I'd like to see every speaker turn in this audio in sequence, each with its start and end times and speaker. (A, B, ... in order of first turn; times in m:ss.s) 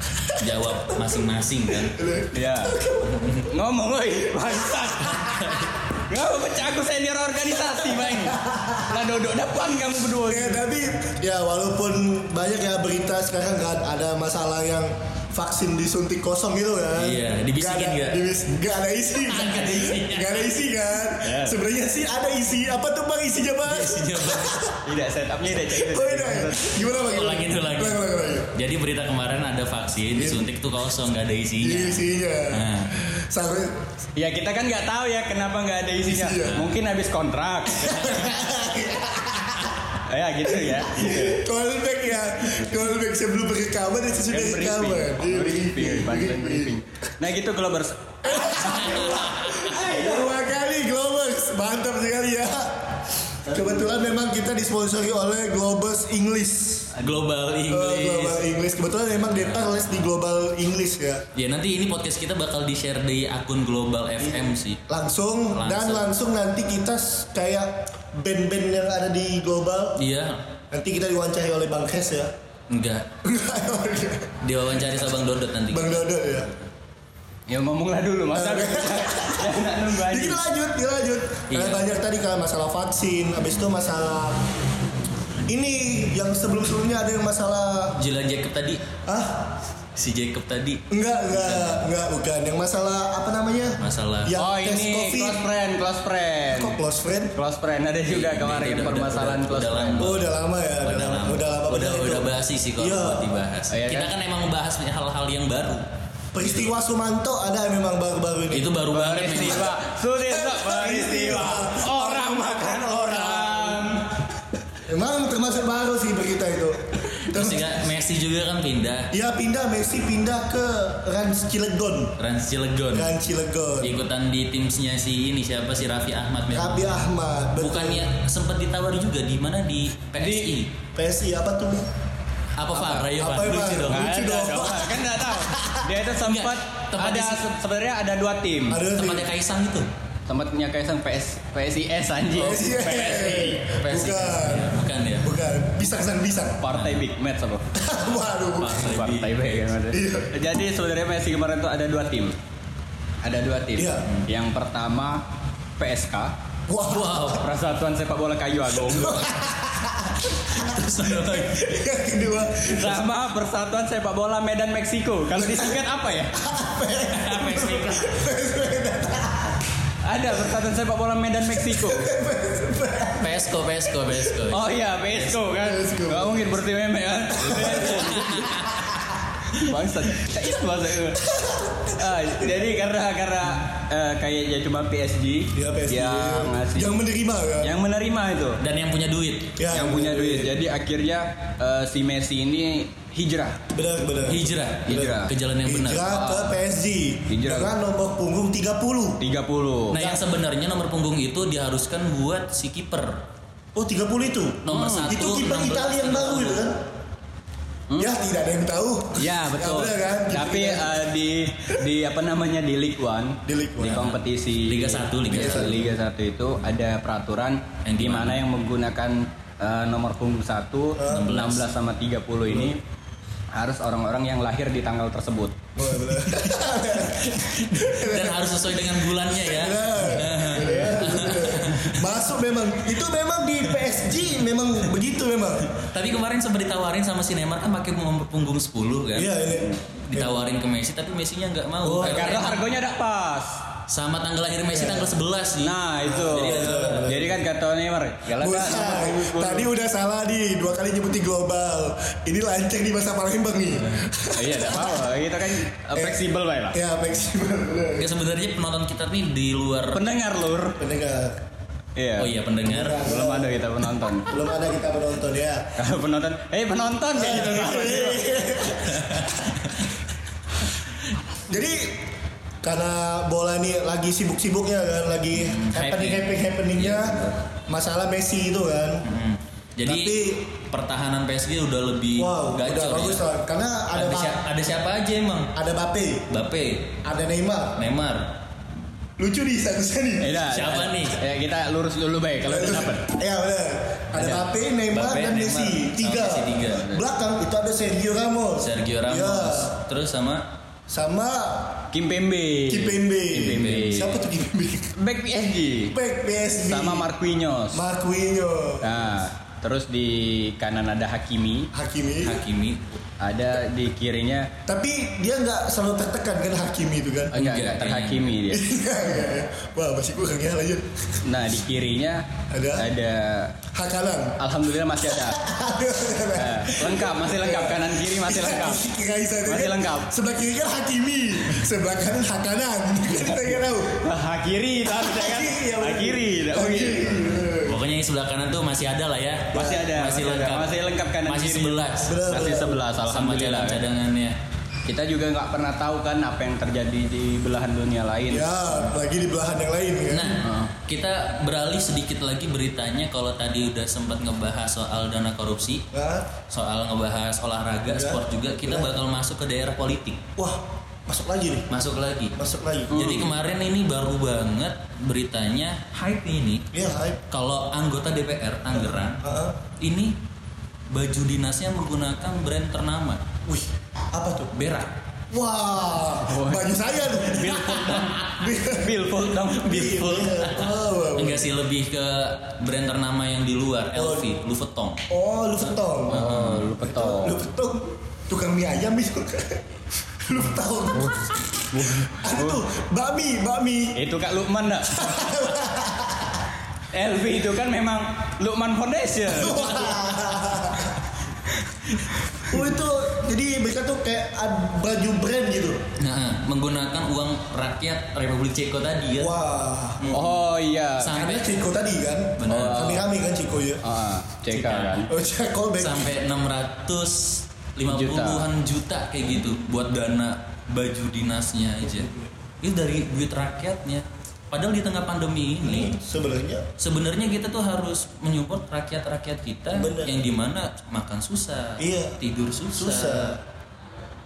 0:00.2-0:00.4 A
0:00.3-0:02.0 B
0:01.8-0:03.4 A
0:02.3-0:02.8 C
0:03.4-0:05.3 C
0:05.9-0:10.6 C
0:08.2-0:08.9 A
0:10.3-0:24.8 A
0:17.0-0:18.2 B
0:19.2-0:20.5 B
0:21.2-0:21.6 C
0:23.6-0:24.6 B
0:24.8-0:26.8 C
0:25.6-0:28.5 A
0:26.9-0:32.9 B
0:30.2-0:30.4 A
0:31.6-0:33.8 A
0:34.1-0:38.2 C
0:36.1-0:36.6 A
0:36.4-0:36.7 B
0:37.7-0:39.8 A
0:40.0-0:41.4 C
0:40.8-0:46.8 A
0:44.3-0:50.3 C
0:48.2-0:56.9 A
0:49.0-0:49.6 B
0:57.0-0:58.4 B
0:57.7-1:01.2 A
0:59.3-0:59.9 B
1:01.3-1:04.8 B
1:04.2-1:10.0 A
1:05.5-1:06.1 B
1:10.0-1:10.4 B
1:10.7-1:12.3 A
1:12.7-1:13.1 B
1:13.2-1:15.1 A
1:14.4-1:16.6 B
1:15.7-1:16.5 A
1:17.5-1:20.4 C
1:18.3-1:24.4 A
1:21.5-1:21.8 B
1:25.5-1:28.0 A
1:28.0-1:28.9 B
1:29.0-1:29.5 A
1:29.9-1:31.8 B
1:30.9-1:35.4 A
1:33.8-1:34.4 B
1:34.4-1:36.8 C
1:36.5-1:37.3 A
1:37.3-1:40.0 C
1:38.1-1:45.8 B
1:40.0-1:42.2 A
1:42.8-1:43.3 A
1:43.7-1:44.1 C
1:46.3-1:48.7 A
1:48.5-1:49.7 B
1:48.9-1:54.2 C
1:49.3-1:49.7 A
1:50.3-1:53.8 A
1:54.8-1:57.8 A
1:57.2-1:59.1 B
1:59.1-2:02.2 A
2:02.2-2:03.1 B
2:02.9-2:04.0 A
2:03.8-2:07.0 B
2:06.5-2:08.0 A
2:07.6-2:10.7 B
2:10.2-2:10.5 C
2:10.9-2:11.9 A
2:12.6-2:14.3 B
2:12.7-2:13.1 C
2:13.2-2:15.9 A
2:13.7-2:18.8 C
2:16.2-2:17.4 B
2:18.7-2:19.3 A
2:18.9-2:19.9 B
2:20.3-2:23.6 C
2:22.3-2:26.6 A
2:23.7-2:25.3 B
2:26.6-2:27.7 C
2:26.7-2:27.0 B
2:27.7-2:28.8 A
2:28.6-2:29.4 B
2:28.7-2:32.4 C
2:29.9-2:30.3 A
2:33.2-2:35.2 C
2:33.8-2:34.0 A
2:35.8-2:36.3 C
2:36.7-2:37.4 A
2:36.8-2:37.4 B
2:37.3-2:39.3 C
2:38.8-2:43.0 A
2:40.4-2:41.7 B
2:42.7-2:46.4 C
2:45.3-2:45.8 A
2:46.3-2:49.6 A
2:47.1-2:48.1 B
2:50.0-2:52.1 C
2:51.6-2:53.9 A
2:53.2-2:55.3 B
2:54.5-2:58.5 C
2:55.6-2:56.5 A
2:57.3-2:58.9 A
2:57.4-2:58.8 B
2:59.6-3:01.2 C
3:01.2-3:02.7 A
3:01.9-3:06.9 C
3:05.5-3:07.7 A
3:07.6-3:08.6 C
3:08.6-3:09.5 B
3:09.6-3:10.5 A
3:09.7-3:13.6 C
3:13.7-3:19.2 A
3:14.3-3:16.2 B
3:14.8-3:15.3 C
3:16.1-3:16.5 C
3:17.3-3:17.7 C
3:19.2-3:20.0 C
3:19.9-3:23.2 B
3:19.9-3:20.2 A
3:23.7-3:26.8 A
3:24.6-3:26.6 B
3:24.7-3:25.0 C
3:28.0-3:31.0 A
3:29.1-3:42.8 C
3:33.4-3:34.1 A
3:34.6-3:35.8 B
3:35.3-3:35.9 A
3:37.8-3:38.4 B
3:41.0-3:41.4 A
3:41.0-3:41.7 B
3:43.5-3:45.6 C
3:45.8-3:55.7 A
3:47.2-3:52.1 B
3:50.6-3:51.2 C
3:55.7-3:59.4 B
3:59.2-4:00.4 A
4:00.0-4:02.7 B
4:01.8-4:02.3 A
4:02.0-4:03.6 C
4:03.9-4:07.0 B
4:04.7-4:05.1 A
4:05.6-4:09.7 C
4:06.0-4:07.4 A
4:08.4-4:15.2 A
4:14.3-4:16.8 C
4:15.8-4:18.1 A
4:18.0-4:20.0 B
4:19.9-4:20.8 C
4:20.8-4:21.4 A
4:22.0-4:22.3 C
4:22.2-4:23.0 B
4:22.6-4:23.5 A
4:23.0-4:24.3 C
4:24.3-4:25.7 A
4:25.8-4:28.4 C
4:27.2-4:29.9 A
4:28.8-4:29.8 B
4:31.5-4:32.1 A
4:32.6-4:39.0 A
4:35.3-4:37.4 B
4:39.0-4:43.2 B
4:39.8-4:40.4 A
4:42.2-4:44.4 A
4:43.9-4:45.5 B
4:45.5-4:46.3 A
4:46.3-4:47.0 B
4:47.0-4:47.8 A
4:47.8-4:48.3 B
4:49.2-4:50.4 A
4:50.2-4:53.1 C
4:50.5-4:51.2 B
4:52.4-4:59.8 A
4:54.1-4:54.5 C
4:54.9-4:56.9 B
4:58.6-5:00.4 B
5:00.9-5:01.9 A
5:01.9-5:04.1 C
5:02.7-5:04.9 A
5:03.4-5:04.1 B
5:04.9-5:06.0 C
5:05.9-5:07.1 A
5:06.6-5:07.8 C
5:07.7-5:09.0 A
5:08.8-5:11.7 C
5:11.7-5:12.4 A
5:12.2-5:13.0 B
5:13.2-5:14.5 C
5:14.6-5:17.4 A
5:17.3-5:18.6 C
5:17.3-5:18.3 B
5:18.5-5:21.2 A
5:21.2-5:22.2 C
5:22.5-5:22.9 A
5:22.7-5:23.6 C
5:23.7-5:24.4 A
5:24.4-5:25.4 C
5:25.2-5:34.0 A
5:26.3-5:28.9 C
5:29.4-5:30.1 C
5:33.9-5:37.2 C
5:34.9-5:37.8 A
5:37.6-5:42.2 B
5:39.5-5:43.8 C
5:42.0-5:42.8 A
5:43.1-5:44.3 B
5:44.8-5:48.8 C
5:48.3-5:50.4 A
5:50.1-5:55.9 B
5:50.4-5:50.7 C
5:55.9-5:56.3 A
5:56.5-6:00.2 B
5:57.9-5:58.9 A
6:00.4-6:01.7 A
6:01.7-6:02.4 B
6:02.4-6:03.3 A
6:02.9-6:06.7 B
6:06.7-6:07.2 A
6:07.3-6:09.2 B
6:09.2-6:09.6 A
6:09.8-6:10.2 B
6:10.9-6:13.2 B
6:13.4-6:14.5 A
6:14.5-6:14.9 B
6:15.3-6:21.5 A
6:16.2-6:20.4 C
6:20.2-6:25.1 B
6:24.0-6:24.3 A
6:25.1-6:26.3 A
6:26.1-6:27.4 C
6:26.1-6:26.7 B
6:26.8-6:29.6 A
6:30.2-6:34.0 A
6:31.0-6:32.6 C
6:33.9-6:35.1 C
6:34.9-6:36.4 A
6:36.9-6:40.1 C
6:39.2-6:40.9 A
6:41.9-6:42.4 C
6:42.5-6:45.8 A
6:46.0-6:49.3 B
6:49.2-6:50.2 A
6:50.0-6:50.4 B
6:50.1-6:51.2 C
6:51.0-6:51.5 B
6:51.1-6:53.8 A
6:52.4-6:53.0 B
6:52.5-6:53.0 C
6:53.8-6:55.1 C
6:54.5-6:55.1 B
6:55.1-6:56.1 A
6:55.8-7:05.9 B
6:57.8-6:58.5 C
7:01.8-7:02.3 A
7:05.6-7:06.7 A
7:06.8-7:13.3 B
7:09.7-7:10.2 A
7:11.8-7:12.2 A
7:12.7-7:13.4 A